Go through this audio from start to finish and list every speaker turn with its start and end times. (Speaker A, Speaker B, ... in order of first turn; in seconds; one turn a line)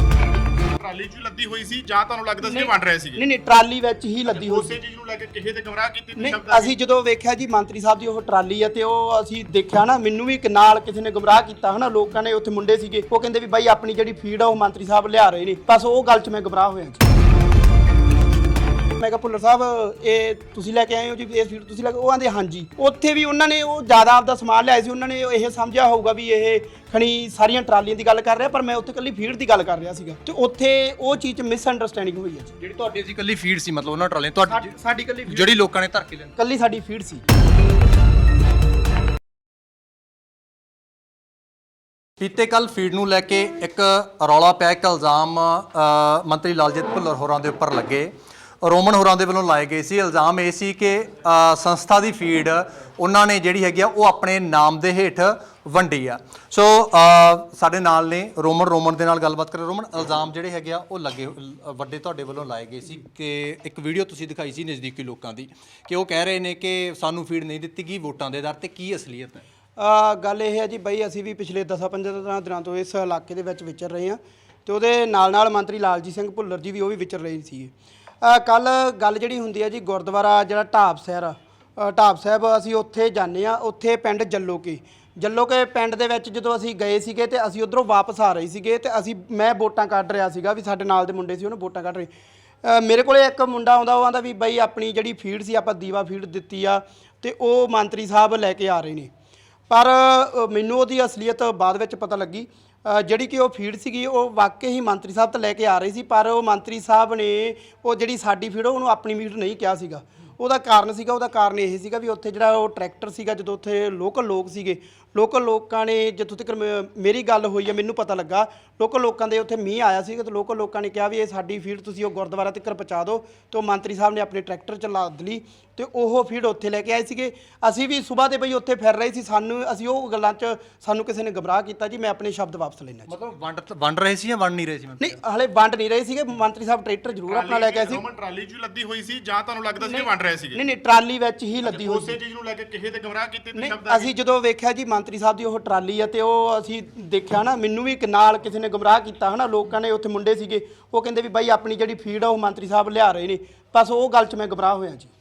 Speaker A: 0.7-3.2
Speaker B: 2.4-4.8
Speaker A: 4.3-6.7
Speaker B: 6.2-17.1
Speaker B: 19.0-32.6
Speaker C: 32.6-34.8
Speaker B: 34.5-35.5
Speaker C: 35.3-36.3
Speaker B: 36.4-37.3
Speaker C: 42.2-48.1
Speaker C: 48.6-69.4
Speaker B: 69.8-92.1
Speaker B: 92.6-99.1
Speaker B: 99.7-133.1
Speaker C: 133.1-135.2
Speaker B: 135.0-138.0
Speaker A: 137.3-140.6
Speaker B: 139.8-142.2
Speaker A: 141.6-144.1
Speaker B: 143.6-155.1